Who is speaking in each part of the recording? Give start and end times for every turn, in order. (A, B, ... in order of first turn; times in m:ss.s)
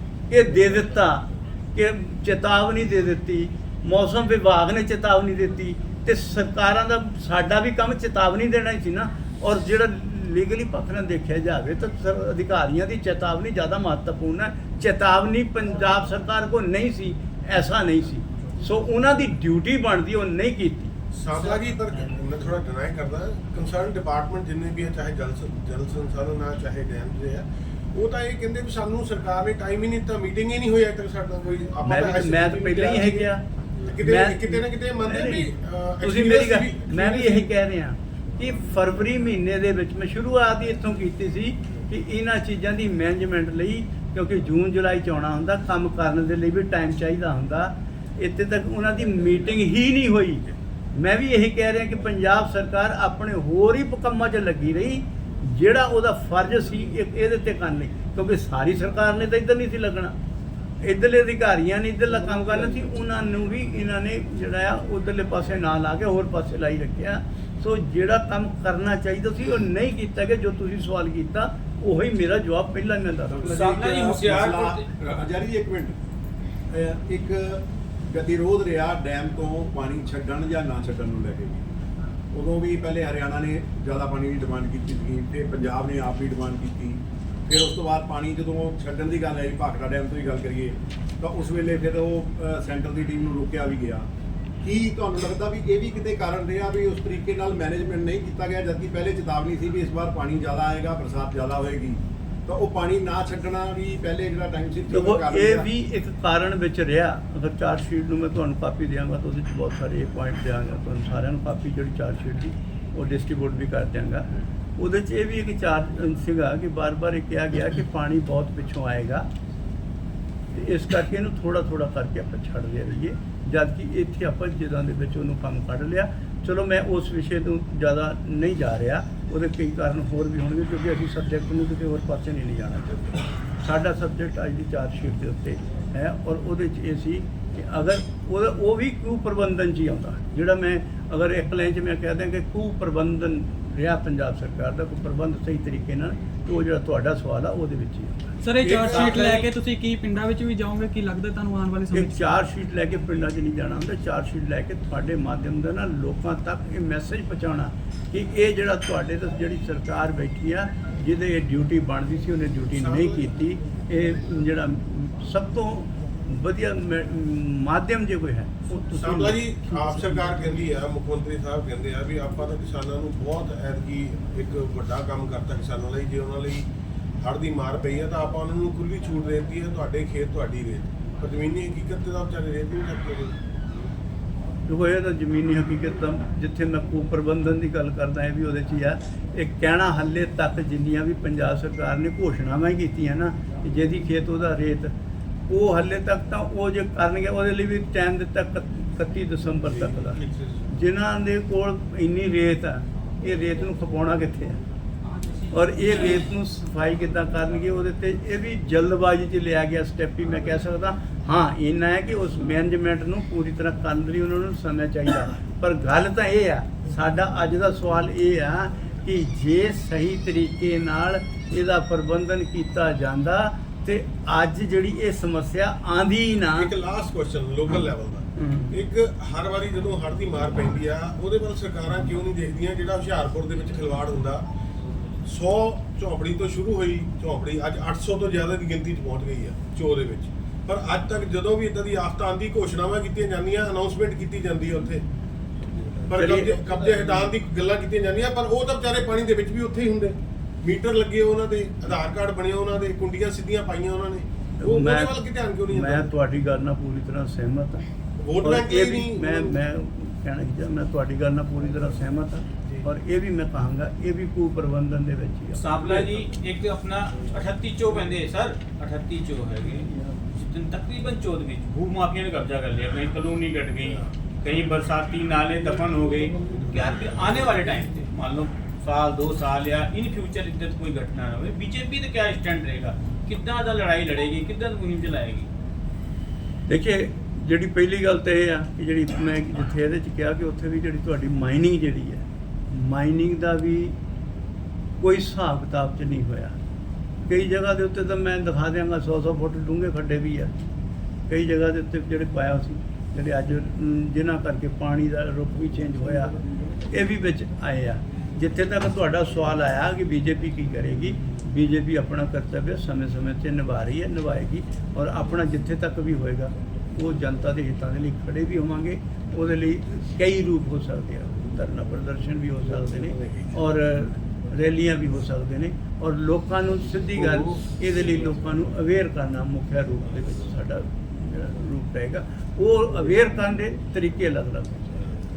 0:00.3-0:20.9 A
0:21.1-0:33.3 B
0:31.8-0:33.4 A
0:33.8-0:37.5 B
0:34.0-0:35.5 A
0:36.0-1:00.1 A
1:00.8-1:13.5 A
1:13.3-1:16.0 C
1:13.4-1:14.8 D
1:16.7-1:21.6 C
1:22.3-1:34.1 C
1:34.6-1:45.7 C
1:44.9-1:59.3 A
2:00.5-2:28.3 A
2:28.4-2:32.2 E
2:28.6-2:29.5 B
2:31.9-2:50.5 A
2:42.7-2:43.3 B
2:48.9-2:56.7 B
2:57.2-3:03.4 B
3:04.7-3:14.9 A
3:15.5-3:24.6 A
3:25.0-3:26.2 D
3:25.5-3:46.7 A
3:46.6-3:54.4 B
3:48.4-3:48.7 A
3:55.2-4:05.0 B
4:06.0-4:16.1 B
4:06.1-4:06.6 A
4:14.6-4:17.9 A
4:18.2-4:19.5 B
4:18.4-4:26.1 A
4:25.5-4:45.5 D
4:46.6-4:54.0 A
4:55.0-4:56.6 A
4:57.2-5:00.5 A
5:01.3-5:06.4 A
5:06.9-5:35.0 A